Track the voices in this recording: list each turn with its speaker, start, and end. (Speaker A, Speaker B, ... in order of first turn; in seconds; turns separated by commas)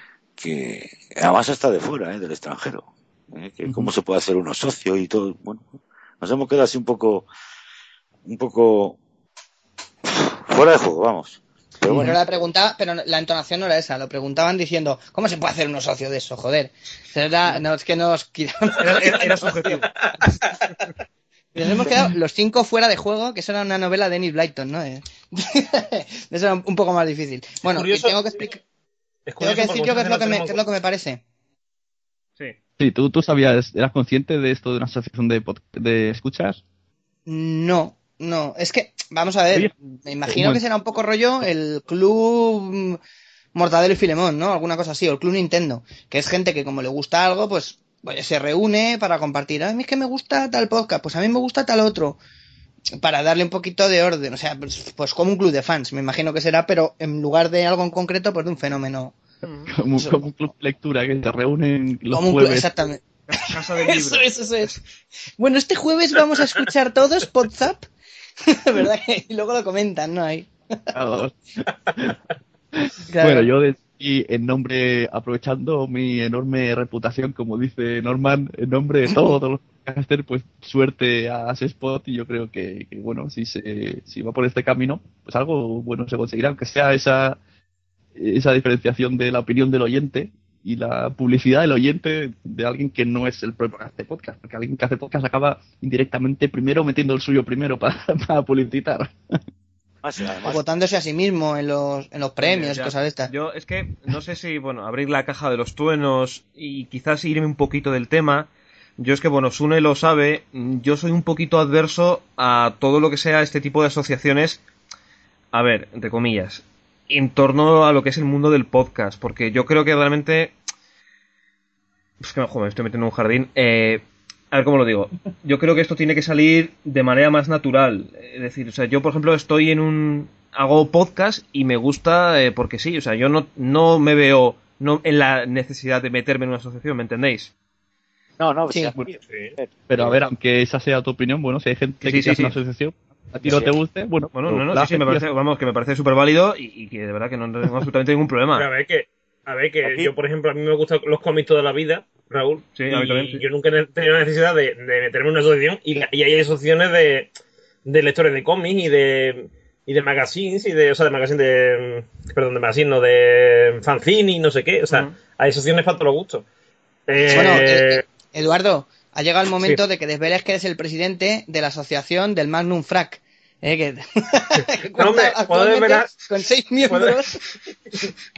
Speaker A: 0.4-5.7, Speaker B: 3.7-3.9, Speaker A: 6.2-7.3, Speaker A: 8.2-9.0, Speaker A: 10.1-12.2, Speaker C: 11.9-20.0, Speaker B: 11.9-12.2, Speaker D: 18.8-19.9, Speaker C: 21.6-28.6, Speaker E: 27.7-28.2, Speaker E: 29.3-30.6, Speaker C: 29.4-31.2, Speaker B: 32.8-36.6, Speaker C: 37.3-43.0, Speaker B: 39.5-40.6, Speaker C: 43.5-52.2, Speaker C: 53.0-59.2, Speaker D: 59.4-59.7, Speaker B: 59.7-62.7, Speaker C: 60.0-60.3, Speaker C: 62.1-64.7, Speaker D: 63.3-64.8, Speaker C: 65.4-67.9, Speaker C: 68.5-70.5, Speaker B: 70.9-72.2, Speaker B: 72.8-87.4, Speaker C: 73.1-73.5, Speaker B: 88.2-99.1, Speaker A: 100.0-100.6, Speaker C: 100.5-103.3, Speaker D: 102.4-114.6, Speaker D: 115.5-120.5, Speaker D: 122.2-137.5, Speaker A: 138.4-140.3, Speaker B: 139.9-145.3, Speaker D: 142.0-142.6, Speaker A: 143.4-143.7, Speaker D: 144.3-148.7, Speaker E: 148.6-157.3, Speaker A: 149.8-150.1, Speaker D: 152.7-153.4, Speaker E: 157.9-166.4, Speaker D: 164.9-165.2, Speaker E: 167.1-168.0, Speaker C: 167.3-177.4, Speaker E: 175.0-176.1, Speaker E: 176.9-177.2